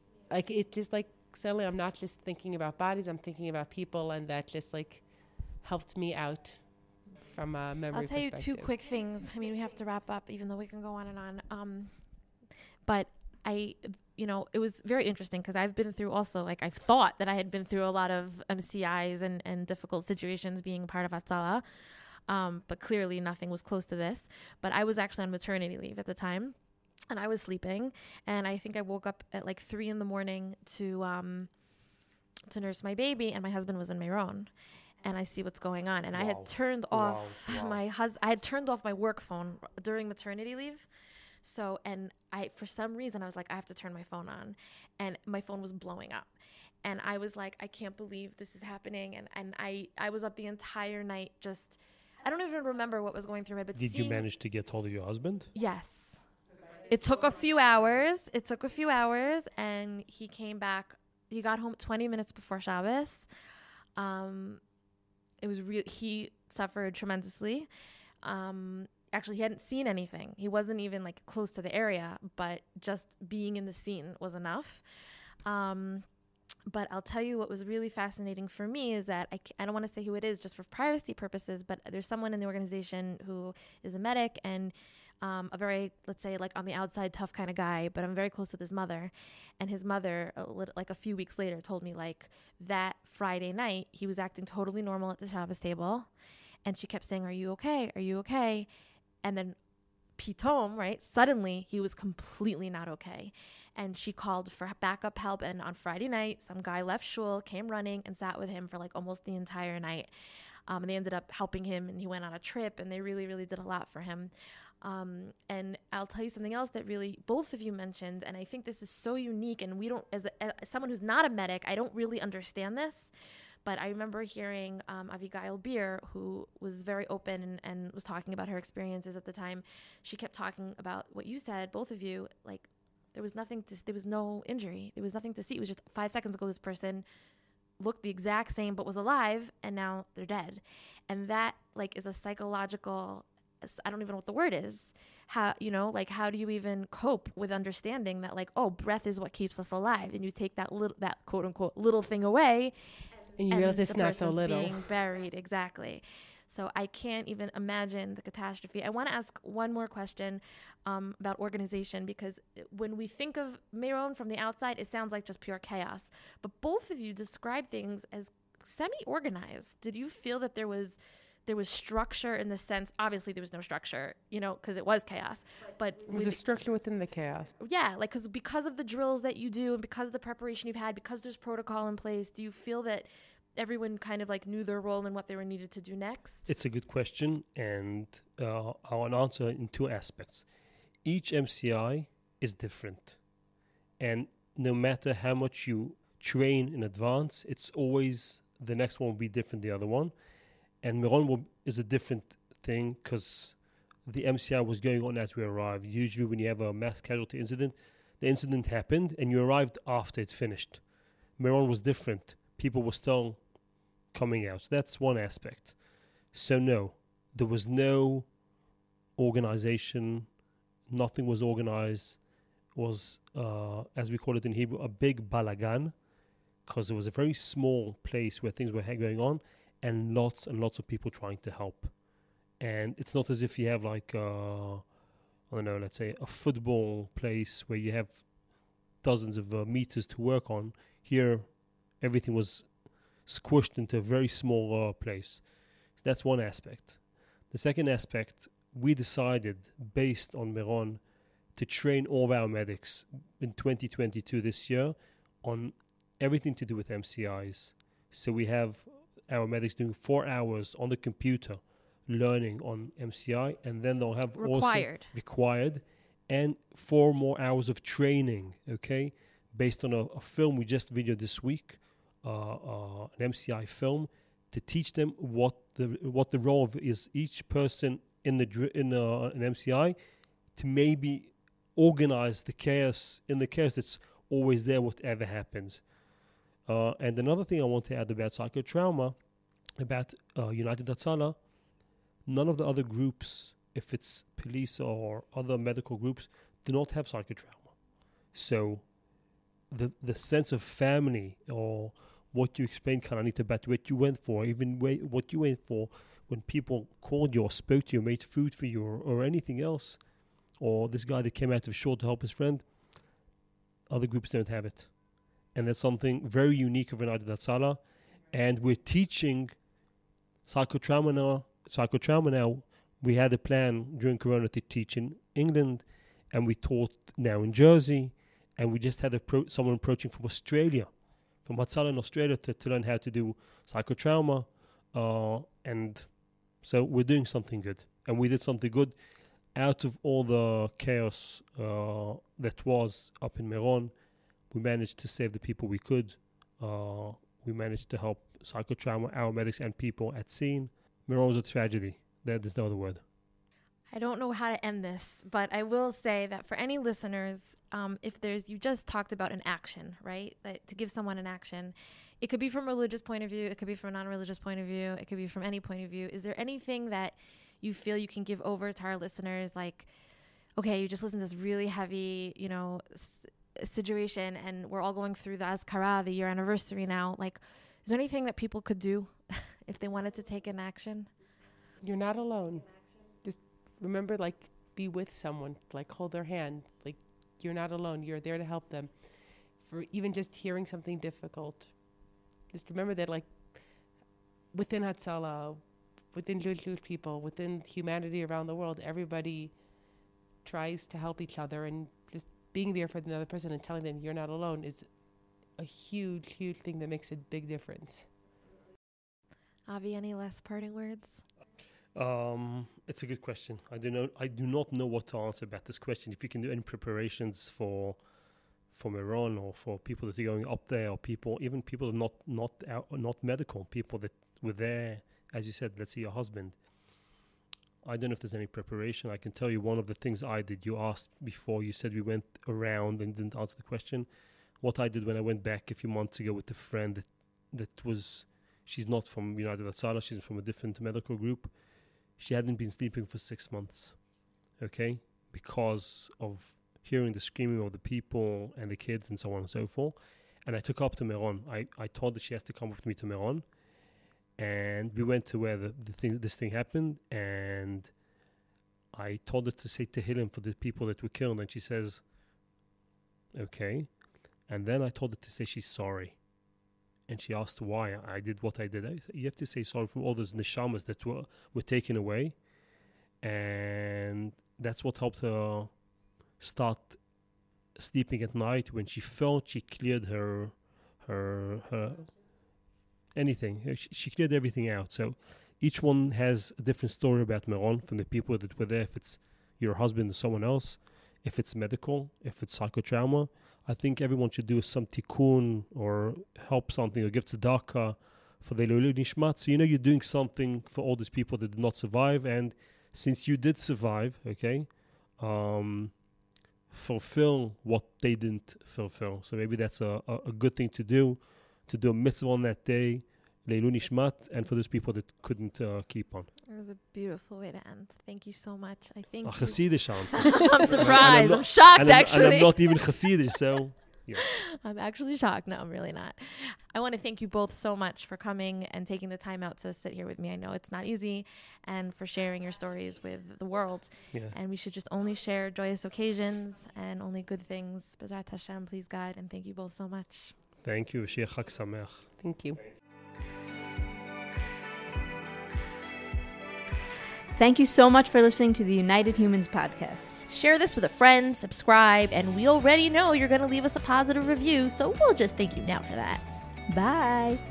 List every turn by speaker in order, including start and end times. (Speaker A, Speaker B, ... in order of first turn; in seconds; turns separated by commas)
Speaker A: 0.3-5.0, Speaker A: 5.6-8.7, Speaker B: 7.9-11.9, Speaker B: 12.9-21.6, Speaker B: 22.3-26.6, Speaker B: 27.1-31.5, Speaker B: 32.5-34.5, Speaker B: 35.0-40.9, Speaker C: 36.1-37.8, Speaker B: 41.4-46.3, Speaker B: 46.8-54.3, Speaker C: 53.7-55.5, Speaker B: 55.5-56.2, Speaker B: 56.9-63.3, Speaker B: 64.0-64.6, Speaker B: 65.4-67.7, Speaker B: 68.2-74.8, Speaker B: 75.5-76.1, Speaker B: 76.7-96.1, Speaker B: 96.7-98.7, Speaker B: 99.2-99.6, Speaker B: 100.2-110.1, Speaker B: 110.7-114.3, Speaker B: 114.8-123.1, Speaker B: 123.7-137.1, Speaker B: 137.8-152.8, Speaker A: 153.4-154.9, Speaker B: 153.5-176.4, Speaker A: 176.1-177.5, Speaker B: 177.6-186.5, Speaker C: 186.5-190.5, Speaker C: 191.0-193.2, Speaker C: 194.0-200.1, Speaker C: 200.8-210.8, Speaker C: 211.4-213.4, Speaker C: 214.1-215.8, Speaker C: 216.3-218.3, Speaker C: 219.2-220.3, Speaker C: 220.9-222.2, Speaker C: 222.7-225.9, Speaker C: 226.7-231.9, Speaker C: 232.6-234.9, Speaker C: 235.5-238.3, Speaker C: 239.0-247.0, Speaker C: 247.5-251.0, Speaker C: 251.6-280.0, Speaker B: 264.4-265.1, Speaker C: 280.6-285.8, Speaker C: 286.7-289.2, Speaker C: 289.8-291.4, Speaker C: 292.2-297.7, Speaker C: 298.3-298.9, Speaker C: 299.7-310.0, Speaker C: 310.6-312.7, Speaker C: 313.9-314.9, Speaker C: 315.5-319.6, Speaker C: 320.5-330.9, Speaker C: 331.4-339.0, Speaker C: 339.5-343.9, Speaker C: 344.5-353.0, Speaker B: 353.9-369.9, Speaker B: 370.6-381.1, Speaker A: 381.8-389.1, Speaker A: 389.6-391.8, Speaker A: 392.5-393.7, Speaker A: 394.5-395.6, Speaker A: 396.1-399.5, Speaker A: 400.4-404.9, Speaker A: 405.6-408.1, Speaker B: 409.7-411.2, Speaker C: 411.9-418.0, Speaker C: 418.7-426.6, Speaker C: 427.8-434.1, Speaker C: 434.6-441.5, Speaker C: 442.2-444.0, Speaker C: 444.6-453.4, Speaker C: 454.4-457.9, Speaker C: 458.9-462.0, Speaker C: 463.3-463.9, Speaker C: 464.5-466.2, Speaker C: 467.1-472.4, Speaker C: 473.2-475.8, Speaker C: 476.4-477.0, Speaker C: 477.8-482.1, Speaker C: 483.1-506.0, Speaker C: 506.7-516.3, Speaker B: 516.5-522.9, Speaker C: 519.2-524.3, Speaker B: 524.2-540.4, Speaker C: 540.6-542.1, Speaker A: 542.2-542.6, Speaker D: 547.4-550.2, Speaker B: 550.3-556.2, Speaker D: 556.7-557.4